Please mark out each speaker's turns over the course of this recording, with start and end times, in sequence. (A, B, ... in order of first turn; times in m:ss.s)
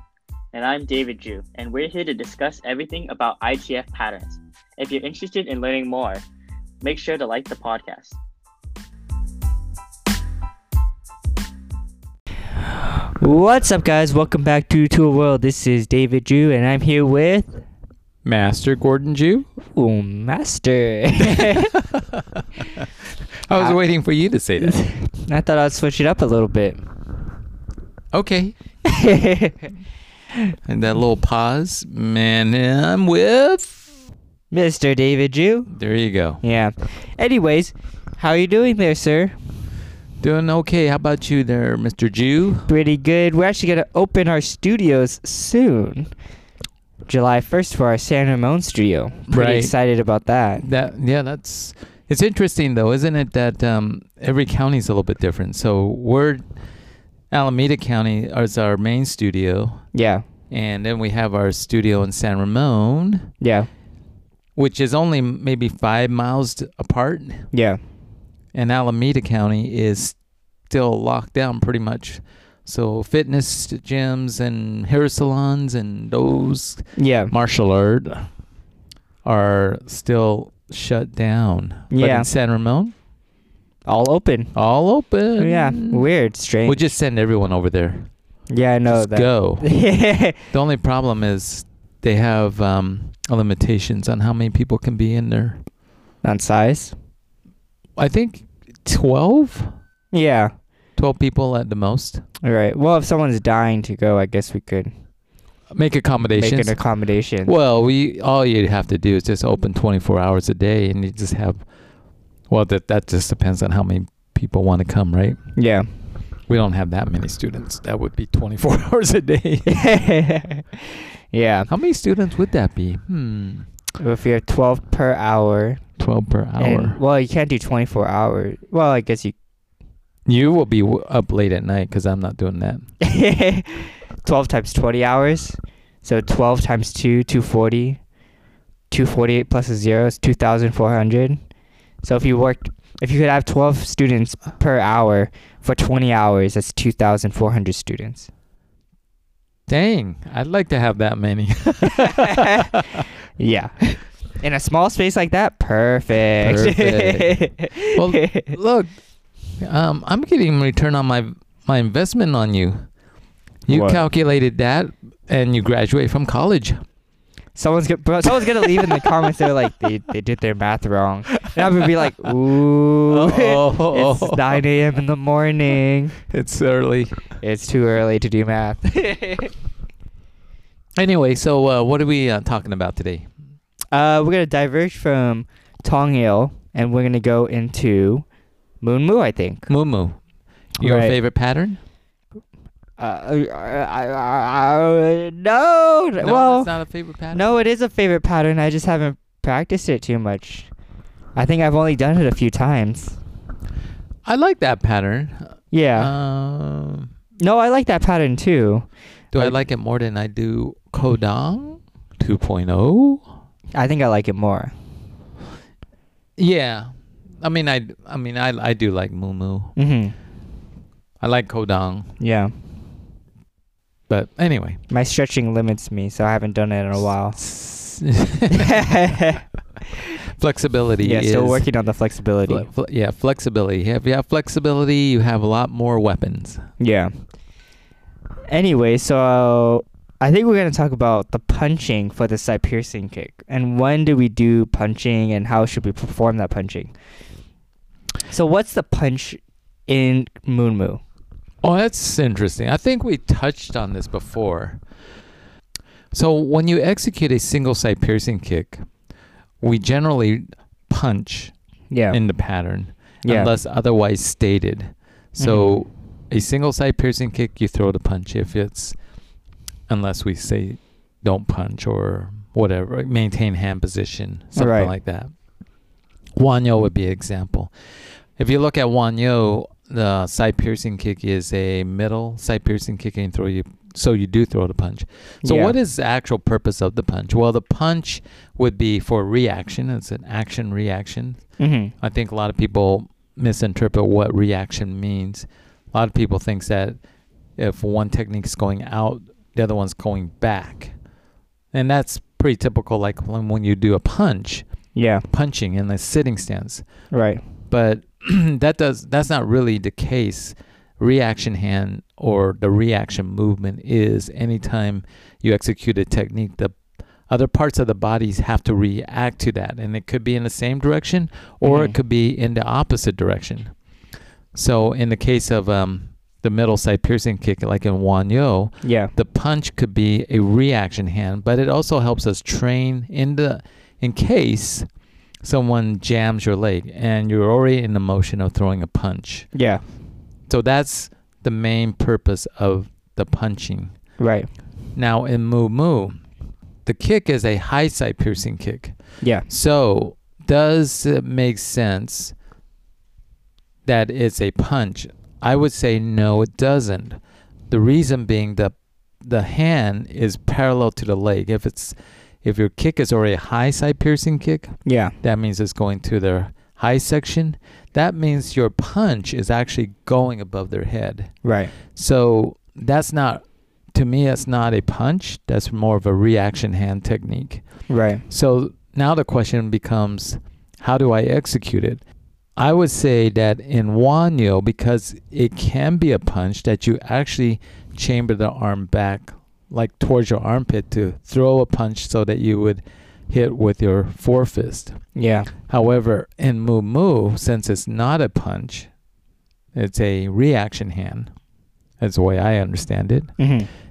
0:00.5-0:06.2 A
0:06.8-0:08.2 A
0:12.8-0:17.6 B
0:18.2-0:19.5 C
0:19.7-0:21.7 B
0:21.2-0:22.9 C
0:23.4-0:24.8 C
0:24.6-0:26.8 B
0:28.1-0:28.5 C
0:28.8-0:29.7 B
0:30.7-0:33.9 C
0:34.5-0:35.7 B
0:35.7-0:36.4 C
0:36.4-0:39.4 B
0:40.2-0:42.7 C
0:42.7-0:46.1 B
0:47.1-0:50.6 B
0:49.3-0:49.7 C
0:50.6-0:56.4 C
0:57.3-0:59.8 C
0:59.9-1:00.2 B
1:00.5-1:03.3 C
1:03.4-1:03.7 B
1:04.6-1:07.5 C
1:07.5-1:07.8 B
1:08.5-1:10.2 C
1:10.7-1:18.3 C
1:17.0-1:17.3 B
1:19.2-1:22.9 C
1:21.9-1:22.3 B
1:23.8-1:24.5 B
1:24.5-1:26.1 C
1:25.4-1:26.9 B
1:26.6-1:28.1 C
1:28.5-1:30.4 B
1:28.9-1:29.6 C
1:30.5-1:35.6 C
1:36.2-1:36.9 B
1:38.0-1:39.7 C
1:40.1-1:40.5 B
1:41.0-1:42.2 C
1:42.4-1:44.9 B
1:45.7-1:46.8 C
1:46.4-1:47.5 B
1:47.4-1:51.6 C
1:52.5-1:55.4 C
1:55.5-1:55.8 B
1:56.5-1:59.8 C
1:59.7-2:01.7 B
2:01.7-2:03.7 C
2:04.0-2:05.8 B
2:06.0-2:07.0 C
2:06.6-2:09.3 B
2:10.3-2:12.8 C
2:13.0-2:18.0 B
2:18.9-2:21.4 B
2:22.0-2:28.3 B
2:29.7-2:33.0 C
2:32.0-2:32.8 B
2:33.4-2:38.5 B
2:36.4-2:38.9 C
2:39.6-2:42.8 C
2:43.7-2:46.8 C
2:43.7-2:44.0 B
2:47.6-2:56.1 B
2:48.4-2:49.0 C
2:51.3-2:51.8 C
2:53.1-2:54.6 C
2:56.3-2:57.2 C
2:57.4-2:59.5 B
3:01.0-3:03.2 C
3:03.9-3:08.2 B
3:08.8-3:09.7 B
3:09.7-3:10.2 C
3:10.8-3:11.8 C
3:10.8-3:11.2 B
3:13.0-3:16.7 B
3:16.2-3:17.5 C
3:17.3-3:20.7 B
3:21.3-3:23.2 B
3:24.2-3:27.1 C
3:25.7-3:26.1 B
3:27.4-3:29.6 B
3:29.3-3:33.2 C
3:33.7-3:34.7 B
3:36.4-3:39.7 C
3:39.8-3:40.1 B
3:41.2-3:42.1 C
3:42.2-3:42.5 B
3:44.1-3:44.8 C
3:44.9-3:47.4 B
3:47.3-3:48.9 C
3:48.5-3:49.4 B
3:50.3-3:51.6 C
3:51.0-3:52.7 B
3:52.5-3:56.6 C
3:56.8-3:57.1 B
3:58.5-4:06.9 B
4:08.3-4:11.0 B
4:11.6-4:14.8 C
4:16.1-4:18.8 C
4:19.6-4:21.5 C
4:21.9-4:22.2 B
4:22.1-4:29.0 C
4:23.2-4:23.5 B
4:25.4-4:25.7 B
4:29.9-4:35.3 C
4:34.6-4:34.9 B
4:36.4-4:37.7 C
4:38.4-4:51.4 C
4:45.4-4:45.7 B
4:51.6-4:51.9 B
4:52.0-4:57.0 C
4:57.6-5:00.9 C
5:01.7-5:04.6 C
5:04.9-5:05.2 B
5:05.3-5:06.8 C
5:07.1-5:07.4 B
5:07.7-5:16.8 C
5:17.3-5:23.7 C
5:21.6-5:22.0 B
5:24.5-5:34.9 C
5:28.8-5:29.1 B
5:35.4-5:39.5 C
5:39.5-5:39.8 B
5:40.5-5:43.9 C
5:44.2-5:44.5 B
5:45.0-5:46.2 C
5:46.8-5:48.9 C
5:49.5-5:52.3 C
5:53.8-5:57.2 C
5:57.7-5:58.7 C
5:59.2-6:11.3 C
6:04.8-6:05.1 B
6:11.4-6:11.7 B
6:11.9-6:13.4 C
6:13.9-6:17.6 C
6:17.9-6:18.2 B
6:18.3-6:22.0 C
6:22.6-6:35.0 C
6:35.2-6:35.5 B
6:35.7-6:38.9 C
6:39.7-6:41.3 C
6:42.0-6:43.3 C
6:43.4-6:43.7 B